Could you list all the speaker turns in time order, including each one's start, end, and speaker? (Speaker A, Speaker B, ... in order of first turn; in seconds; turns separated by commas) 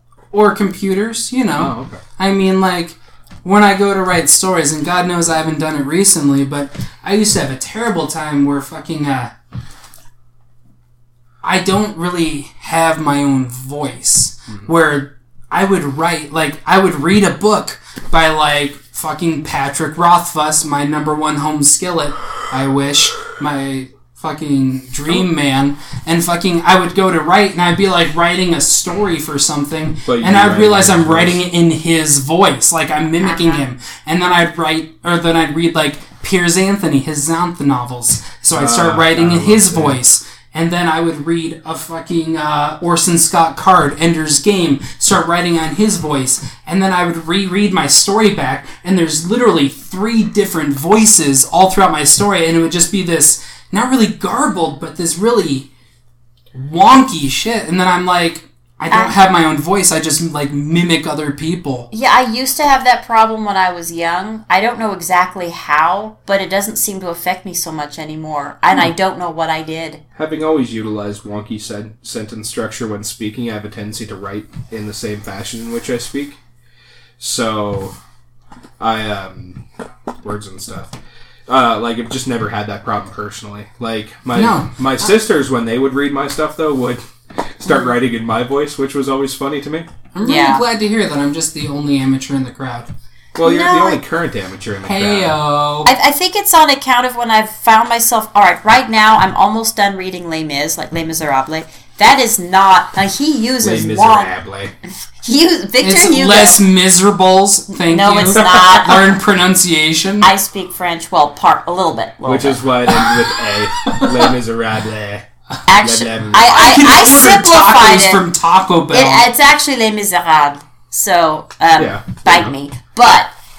Speaker A: 0.3-9.3, Speaker B: 1.6-2.0, Speaker A: 11.4-55.7, Speaker B: 30.1-31.4, Speaker C: 33.2-33.6, Speaker B: 38.5-40.0, Speaker A: 56.5-61.9, Speaker C: 61.9-70.0, Speaker B: 70.2-76.4, Speaker B: 77.2-78.0, Speaker B: 78.8-79.6, Speaker B: 80.2-80.9, Speaker B: 81.5-89.9, Speaker A: 84.3-85.1, Speaker A: 90.1-92.9, Speaker C: 90.2-90.6, Speaker B: 93.3-95.4, Speaker C: 93.4-94.0, Speaker A: 94.8-95.9, Speaker C: 95.8-104.3, Speaker B: 103.6-104.7, Speaker C: 105.2-106.6, Speaker A: 105.8-110.3, Speaker C: 107.8-109.2, Speaker C: 110.2-112.6, Speaker B: 112.2-115.3, Speaker A: 113.8-114.2, Speaker C: 115.7-118.2, Speaker B: 115.8-117.0, Speaker A: 116.5-119.3, Speaker C: 118.9-123.3, Speaker B: 121.8-122.5